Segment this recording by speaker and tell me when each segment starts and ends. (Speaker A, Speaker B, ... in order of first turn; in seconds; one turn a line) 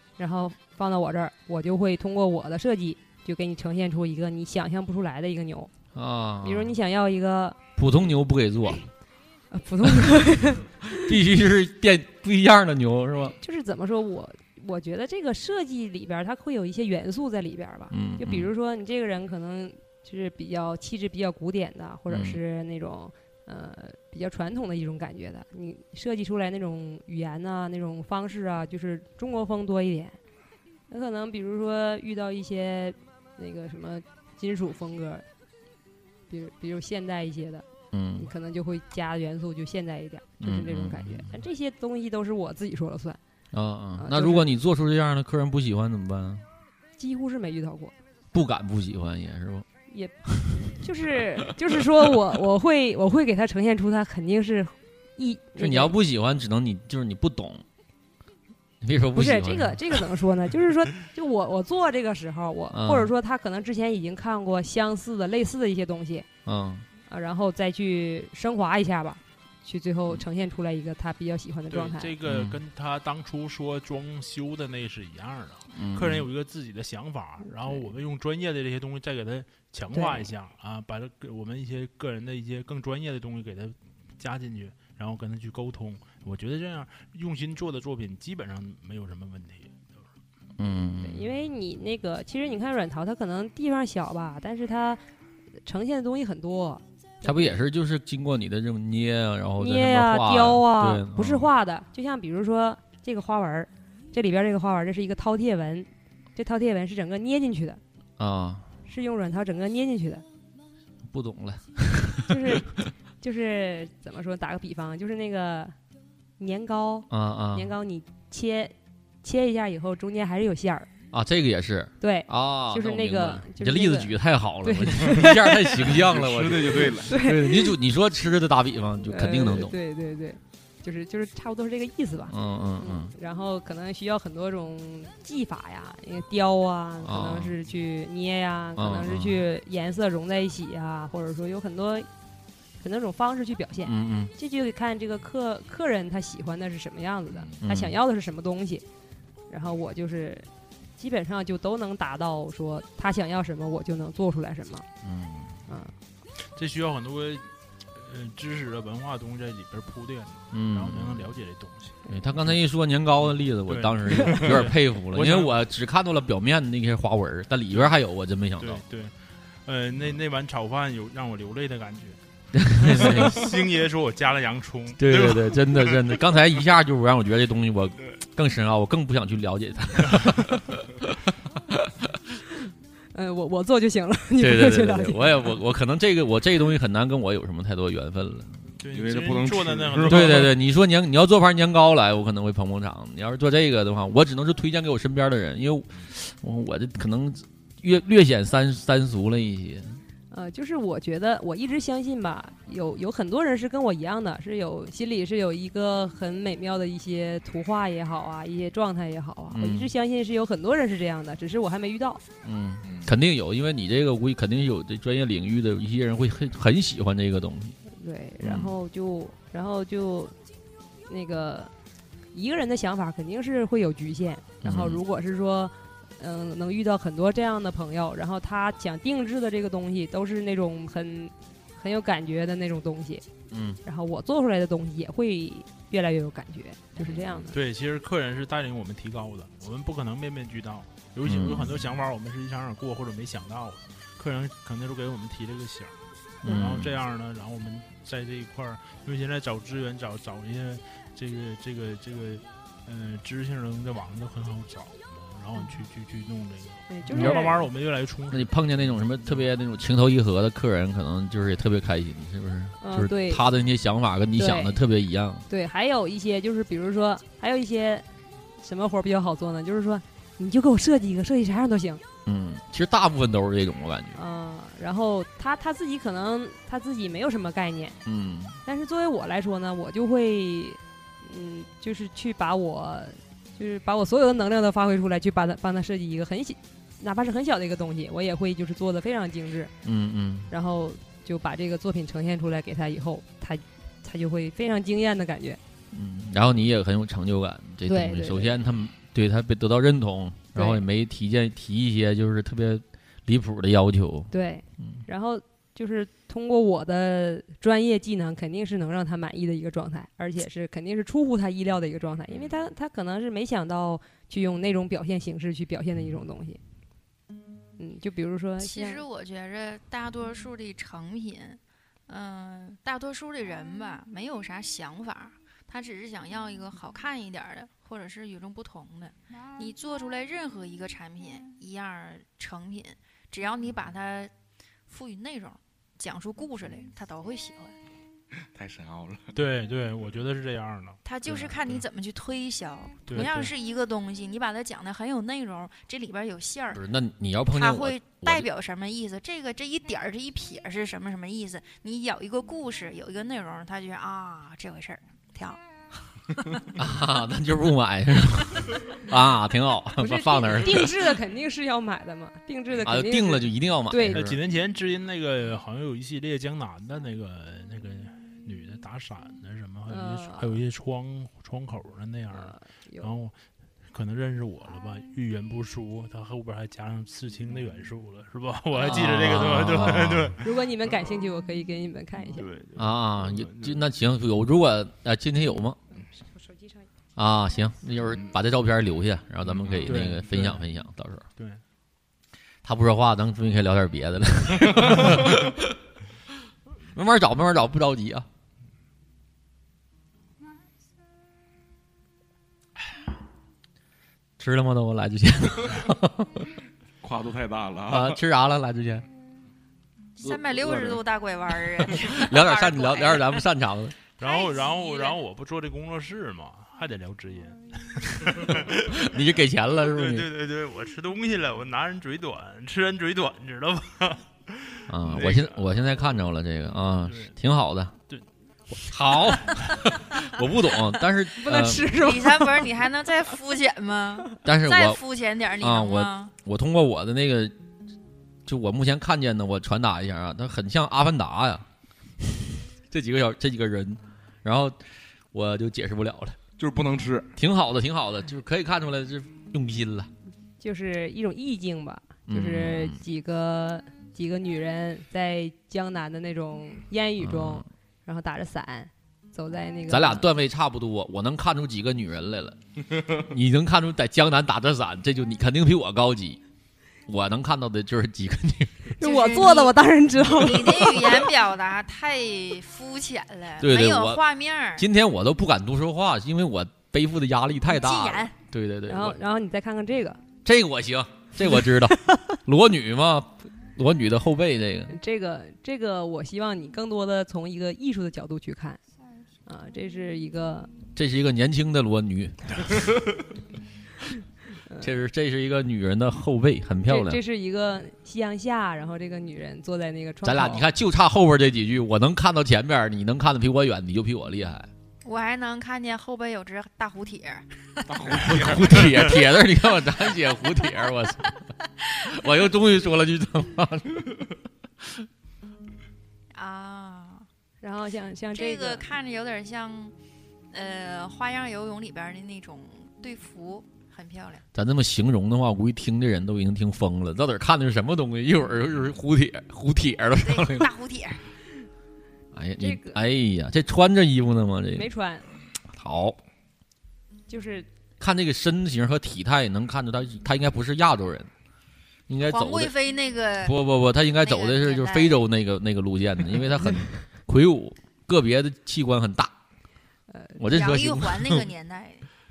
Speaker A: 0.2-5.7
Speaker B: 5.9-6.8
Speaker A: 6.4-7.6
Speaker B: 7.8-8.8
Speaker A: 9.5-11.1
Speaker B: 9.8-10.1
Speaker B: 10.9-13.4
Speaker A: 13.4-30.2
Speaker B: 17.9-18.5
Speaker B: 22.1-22.4
Speaker A: 30.9-35.2
Speaker A: 36.3-37.6
Speaker B: 37.9-38.3
Speaker A: 38.2-43.2
Speaker B: 40.4-41.3
Speaker B: 43.5-46.4
Speaker A: 44.0-44.5
Speaker A: 47.0-47.9
Speaker B: 48.3-49.7
Speaker A: 49.9-50.1
Speaker B: 50.3-50.7
Speaker A: 50.6-56.0
Speaker B: 55.6-57.6
Speaker B: 58.8-60.0
Speaker A: 59.1-66.3
Speaker B: 62.7-63.1
Speaker B: 66.4-66.9
Speaker A: 67.1-72.1
Speaker C: 71.7-90.1
Speaker B: 72.2-72.6
Speaker B: 75.7-76.3
Speaker A: 79.9-80.3
Speaker B: 90.6-91.3
Speaker A: 91.0-95.0
Speaker A: 95.6-97.6
Speaker B: 97.2-101.5
Speaker A: 99.6-107.8
Speaker B: 108.2-108.7
Speaker A: 108.8-110.2
Speaker B: 111.0-112.7
Speaker A: 112.3-115.7
Speaker A: 116.4-120.9
Speaker B: 117.1-117.7
Speaker B: 121.1-129.8
Speaker A: 122.0-125.9
Speaker D: 125.9-127.2
Speaker A: 127.0-127.7
Speaker A: 129.0-142.1
Speaker B: 132.3-133.1
Speaker B: 137.0-137.5
Speaker B: 138.8-139.4
Speaker A: 142.8-148.8
Speaker B: 143.8-144.3
Speaker B: 147.6-148.0
Speaker A: 149.5-154.8
Speaker B: 155.0-155.6
Speaker A: 155.7-155.9
Speaker C: 156.5-162.6
Speaker B: 160.5-161.3
Speaker B: 162.1-168.8
Speaker C: 163.6-165.5
Speaker C: 168.6-172.2
Speaker B: 172.5-173.5
Speaker C: 172.7-176.2
Speaker B: 175.0-181.1
Speaker A: 183.1-185.4
Speaker B: 184.4-188.6
Speaker C: 188.8-190.5
Speaker D: 188.9-190.5
Speaker B: 190.1-200.0
Speaker A: 200.3-212.2
Speaker B: 209.5-209.9
Speaker B: 212.4-217.8
Speaker D: 212.8-213.1
Speaker A: 217.9-220.3
Speaker B: 218.4-218.7
Speaker A: 221.1-221.7
Speaker A: 222.3-233.2
Speaker B: 224.6-225.0
Speaker B: 233.5-233.8
Speaker A: 233.8-237.6
Speaker B: 237.0-237.5
Speaker C: 237.5-258.6
Speaker B: 241.2-241.8
Speaker B: 246.4-247.0
Speaker A: 256.9-257.6
Speaker B: 257.1-257.5
Speaker B: 258.3-265.4
Speaker A: 262.8-263.4
Speaker A: 264.4-264.8
Speaker A: 265.5-268.0
Speaker A: 268.6-272.0
Speaker B: 272.2-274.2
Speaker A: 274.1-278.0
Speaker B: 278.0-278.6
Speaker A: 278.6-289.7
Speaker B: 289.8-290.5
Speaker A: 290.5-295.6
Speaker B: 295.9-305.0
Speaker A: 297.9-298.6
Speaker A: 300.5-300.8
Speaker A: 304.3-316.6
Speaker A: 317.8-319.0
Speaker E: 318.6-334.3
Speaker E: 334.9-337.8
Speaker D: 338.5-339.3
Speaker C: 339.3-341.8
Speaker E: 341.0-346.8
Speaker C: 343.1-343.5
Speaker B: 346.7-348.5
Speaker E: 347.5-355.6
Speaker B: 356.8-361.0
Speaker A: 360.0-364.2
Speaker B: 362.8-364.4
Speaker C: 364.1-373.4
Speaker A: 369.9-370.6
Speaker A: 372.3-373.1
Speaker C: 373.9-380.9
Speaker B: 378.7-380.4
Speaker A: 380.4-382.5
Speaker C: 382.3-383.8
Speaker B: 382.8-385.8
Speaker A: 386.1-386.9
Speaker B: 387.1-391.2
Speaker C: 389.7-390.6
Speaker B: 392.6-395.6
Speaker B: 396.9-398.3
Speaker B: 404.4-406.5
Speaker D: 407.0-408.2
Speaker B: 407.9-409.1
Speaker E: 410.2-413.4
Speaker D: 410.3-411.0
Speaker B: 411.9-413.9
Speaker E: 414.2-415.2
Speaker C: 414.2-419.2
Speaker B: 419.0-420.3
Speaker C: 419.7-426.1
Speaker B: 424.9-427.9
Speaker C: 427.0-427.3
Speaker C: 428.1-429.8
Speaker B: 428.8-432.0
Speaker A: 431.3-432.7
Speaker E: 432.0-436.3
Speaker B: 434.4-435.0
Speaker B: 435.6-437.5
Speaker B: 438.4-441.6
Speaker B: 442.2-444.8
Speaker B: 445.3-446.4
Speaker D: 446.6-447.3
Speaker B: 447.4-450.1
Speaker A: 450.6-460.3
Speaker B: 452.3-453.0
Speaker B: 457.2-457.7
Speaker B: 459.9-462.6
Speaker B: 463.2-466.4
Speaker B: 467.1-468.9
Speaker A: 469.0-471.3
Speaker E: 469.0-474.9
Speaker B: 473.6-474.2
Speaker B: 474.8-479.2
Speaker E: 477.7-478.3
Speaker A: 478.9-480.2
Speaker B: 480.4-484.9
Speaker A: 484.9-488.8
Speaker A: 489.4-490.7
Speaker B: 490.9-492.9
Speaker B: 494.8-497.2
Speaker A: 496.8-500.6
Speaker B: 500.2-504.7
Speaker E: 505.0-508.2
Speaker D: 507.9-509.0
Speaker B: 508.1-511.3
Speaker B: 512.0-514.2
Speaker E: 516.3-517.3
Speaker A: 517.6-518.8
Speaker E: 518.3-519.9
Speaker E: 520.5-524.4
Speaker B: 524.5-530.7
Speaker E: 530.2-531.2
Speaker B: 532.3-534.9
Speaker A: 532.6-533.0
Speaker A: 534.7-535.3
Speaker B: 535.7-536.2
Speaker A: 537.3-537.7
Speaker B: 538.0-541.3
Speaker B: 542.1-542.7
Speaker E: 542.2-543.6
Speaker B: 543.4-549.3
Speaker E: 544.1-545.2
Speaker A: 550.1-550.4
Speaker B: 550.4-551.5
Speaker E: 550.5-552.1